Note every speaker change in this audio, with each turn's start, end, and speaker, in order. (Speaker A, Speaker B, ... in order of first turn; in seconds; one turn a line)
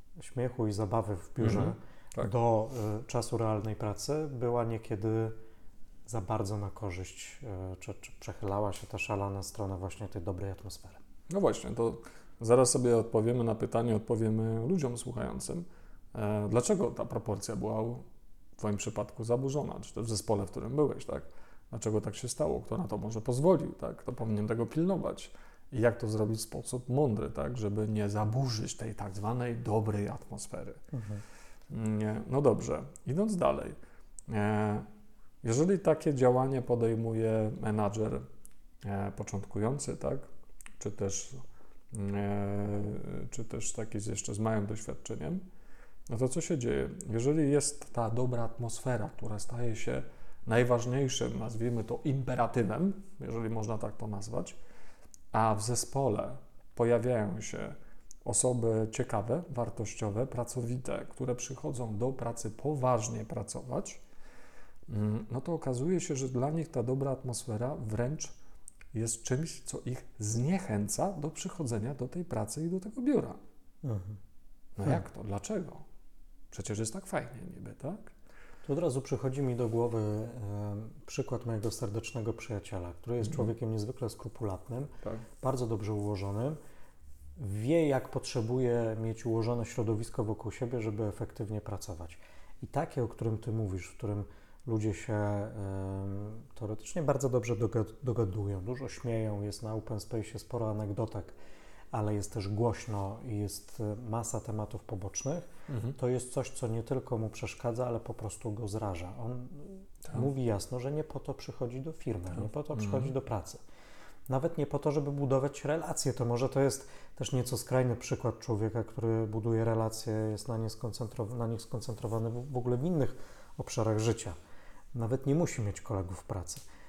Speaker A: 0.2-5.4
Speaker B: 1.4-2.3
Speaker A: 6.1-11.0
Speaker B: 11.3-18.1
Speaker B: 18.6-30.8
Speaker A: 30.9-31.2
Speaker B: 31.7-33.8
Speaker B: 34.3-34.9
Speaker B: 35.4-38.2
Speaker B: 38.8-40.2
Speaker B: 40.8-45.4
Speaker B: 46.1-54.6
Speaker B: 55.3-64.0
Speaker B: 64.9-68.3
Speaker B: 68.9-73.4
Speaker A: 73.8-74.2
Speaker B: 74.8-75.8
Speaker B: 76.5-78.1
Speaker A: 78.7-86.6
Speaker B: 83.2-83.5
Speaker A: 87.4-101.3
Speaker A: 101.9-113.6
Speaker B: 105.7-106.0
Speaker B: 112.7-113.1
Speaker A: 114.3-124.3
Speaker A: 124.9-126.6